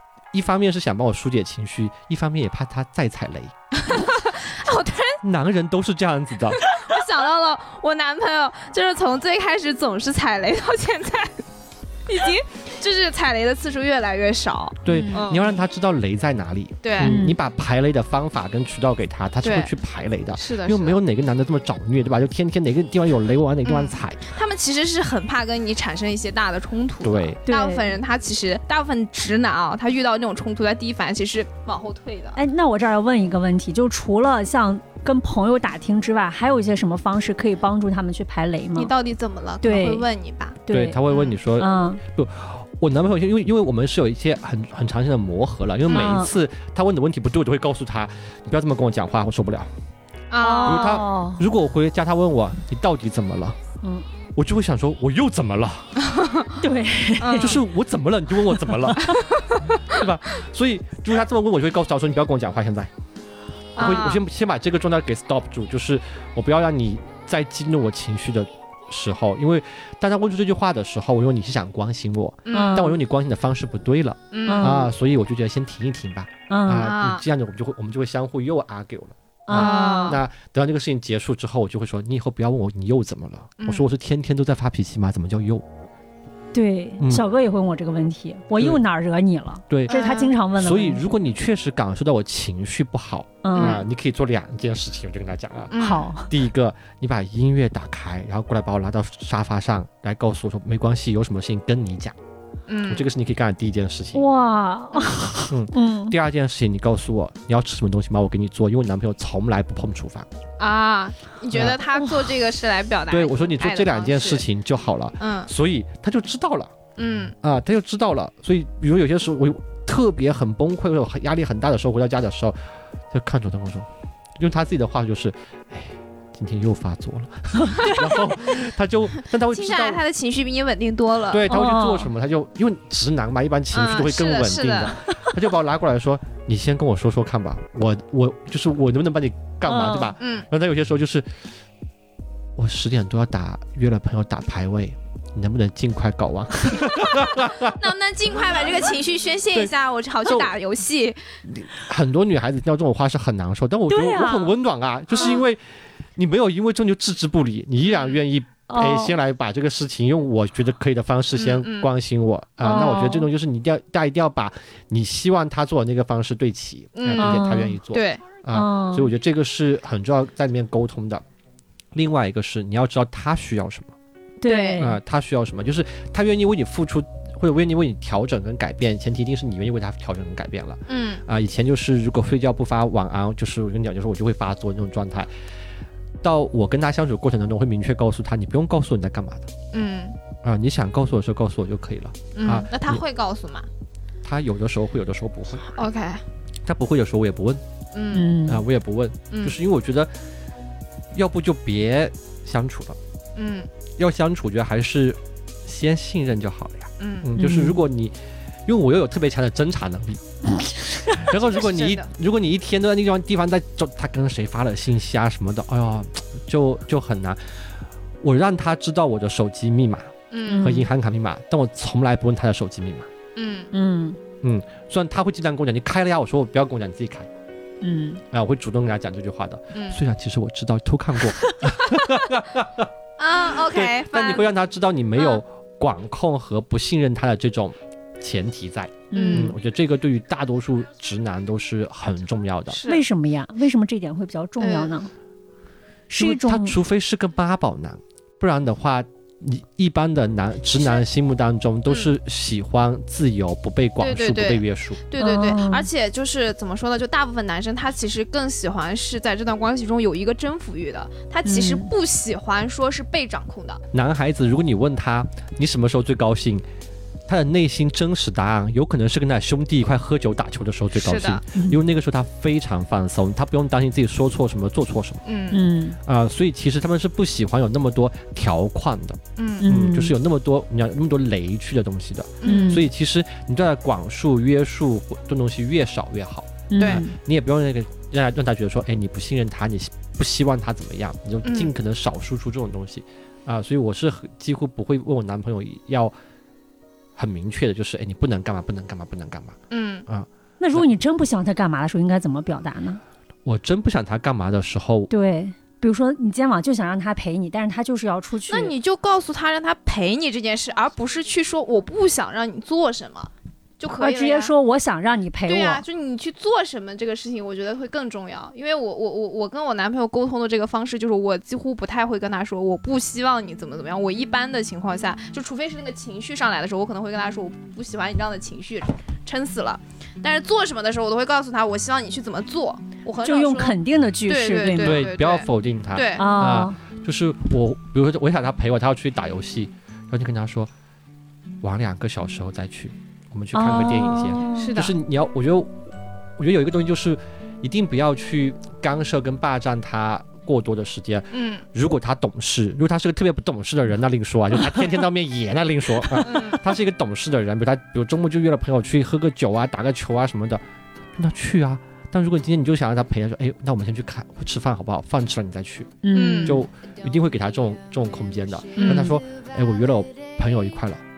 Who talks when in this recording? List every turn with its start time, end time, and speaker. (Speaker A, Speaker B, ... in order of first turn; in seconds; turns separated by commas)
Speaker A: 0.3-3.5, Speaker B: 3.8-5.2, Speaker A: 5.2-6.6, Speaker B: 6.7-11.4, Speaker B: 12.1-15.4, Speaker A: 14.8-24.2, Speaker C: 14.9-15.2, Speaker B: 16.8-17.2, Speaker C: 17.0-17.4, Speaker B: 19.4-19.7, Speaker B: 20.3-21.0, Speaker B: 23.6-32.4, Speaker A: 27.0-27.4, Speaker C: 27.5-27.9, Speaker C: 32.4-38.9, Speaker B: 38.8-41.4, Speaker C: 39.6-40.0, Speaker C: 40.7-41.0, Speaker A: 40.7-49.7, Speaker C: 41.6-42.0, Speaker B: 45.9-46.2, Speaker C: 45.9-46.3, Speaker B: 50.3-51.0, Speaker C: 50.4-51.4, Speaker A: 50.6-53.6, Speaker A: 54.4-56.0, Speaker B: 56.1-56.5, Speaker C: 56.6-57.6, Speaker B: 57.2-57.6, Speaker A: 57.4-59.0, Speaker C: 58.7-59.2, Speaker B: 59.3-59.6, Speaker A: 59.8-62.9, Speaker B: 63.8-64.2, Speaker A: 63.8-85.6, Speaker B: 72.5-72.9, Speaker C: 72.5-73.0, Speaker B: 74.3-74.8, Speaker C: 74.4-74.9, Speaker C: 76.5-76.9, Speaker B: 76.8-77.2, Speaker C: 79.5-80.2, Speaker B: 79.5-80.2, Speaker B: 83.6-83.9, Speaker C: 86.5-91.1, Speaker A: 87.0-87.2, Speaker A: 89.7-95.7, Speaker B: 89.9-90.3, Speaker C: 93.4-93.8, Speaker B: 93.5-93.8, Speaker B: 95.7-96.1, Speaker C: 95.8-96.3, Speaker A: 96.3-102.2, Speaker B: 102.7-103.0, Speaker A: 102.9-104.2, Speaker C: 104.1-106.1, Speaker A: 105.5-110.3, Speaker B: 110.6-114.4, Speaker A: 111.5-111.8, Speaker A: 113.1-116.7, Speaker B: 115.2-115.5, Speaker B: 117.0-117.3, Speaker A: 117.4-130.0, Speaker C: 127.6-128.1, Speaker B: 129.5-131.5, Speaker A: 131.3-141.3, Speaker C: 131.5-132.1, Speaker B: 133.7-135.0, Speaker C: 139.6-140.1, Speaker B: 140.2-140.5, Speaker A: 142.6-147.8, Speaker B: 147.6-151.2, Speaker A: 151.4-171.2, Speaker C: 153.9-154.5, Speaker B: 155.1-155.4, Speaker B: 157.9-158.2, Speaker C: 158.7-159.1, Speaker B: 161.4-161.9, Speaker C: 162.6-163.3, Speaker B: 166.9-168.2, Speaker C: 167.2-167.8, Speaker C: 168.5-169.1, Speaker A: 171.9-173.9, Speaker C: 174.4-174.9, Speaker B: 174.4-174.9, Speaker A: 174.8-185.3, Speaker B: 180.9-181.2, Speaker A: 186.2-189.5, Speaker B: 189.7-190.2, Speaker A: 190.4-193.0, Speaker B: 192.3-193.7, Speaker A: 194.2-195.8, Speaker B: 195.7-196.2, Speaker A: 196.6-197.6, Speaker B: 197.9-198.3, Speaker C: 198.1-198.6, Speaker A: 198.4-200.1, Speaker B: 199.3-199.6, Speaker A: 201.1-203.0, Speaker B: 203.3-203.7, Speaker A: 204.0-210.5, Speaker B: 207.0-207.3, Speaker C: 207.4-207.8, Speaker C: 210.9-211.1, Speaker A: 211.2-217.7, Speaker B: 211.2-212.1, Speaker A: 218.2-223.1, Speaker B: 220.3-220.8, Speaker C: 220.5-220.8, Speaker B: 223.3-223.7, Speaker C: 223.7-224.2, Speaker A: 224.4-227.3, Speaker C: 227.8-228.2, Speaker A: 228.3-232.9, Speaker B: 229.7-230.0, Speaker B: 233.2-234.5, Speaker A: 233.5-242.8, Speaker C: 239.1-239.5, Speaker B: 239.1-239.5, Speaker B: 242.7-243.0, Speaker C: 242.9-245.1, Speaker B: 244.6-245.1, Speaker C: 246.1-246.7, Speaker A: 246.2-255.0, Speaker B: 250.8-251.0, Speaker B: 254.0-263.8, Speaker C: 255.2-255.9, Speaker C: 261.4-261.9, Speaker A: 263.9-266.6, Speaker A: 267.3-275.2, Speaker B: 270.9-271.4, Speaker C: 271.5-271.8, Speaker B: 275.2-275.6, Speaker C: 275.5-276.0, Speaker A: 276.1-296.1, Speaker B: 279.4-279.6, Speaker C: 279.6-280.1, Speaker B: 282.4-282.8, Speaker C: 282.4-282.8, Speaker C: 286.7-287.1, Speaker B: 291.4-291.7, Speaker A: 297.1-300.9, Speaker B: 299.7-300.1, Speaker C: 300.6-303.0, Speaker A: 303.4-305.1, Speaker C: 305.1-308.7, Speaker B: 308.5-314.5, Speaker C: 314.0-315.8, Speaker B: 315.5-336.5, Speaker C: 333.2-335.1, Speaker A: 334.8-340.7, Speaker C: 336.2-336.8, Speaker A: 341.6-360.6, Speaker C: 343.5-344.7, Speaker B: 344.6-344.9, Speaker B: 351.3-351.6, Speaker B: 356.2-356.6, Speaker A: 361.1-371.0, Speaker C: 366.0-366.6, Speaker B: 366.1-366.6, Speaker B: 368.8-369.2, Speaker C: 368.8-369.1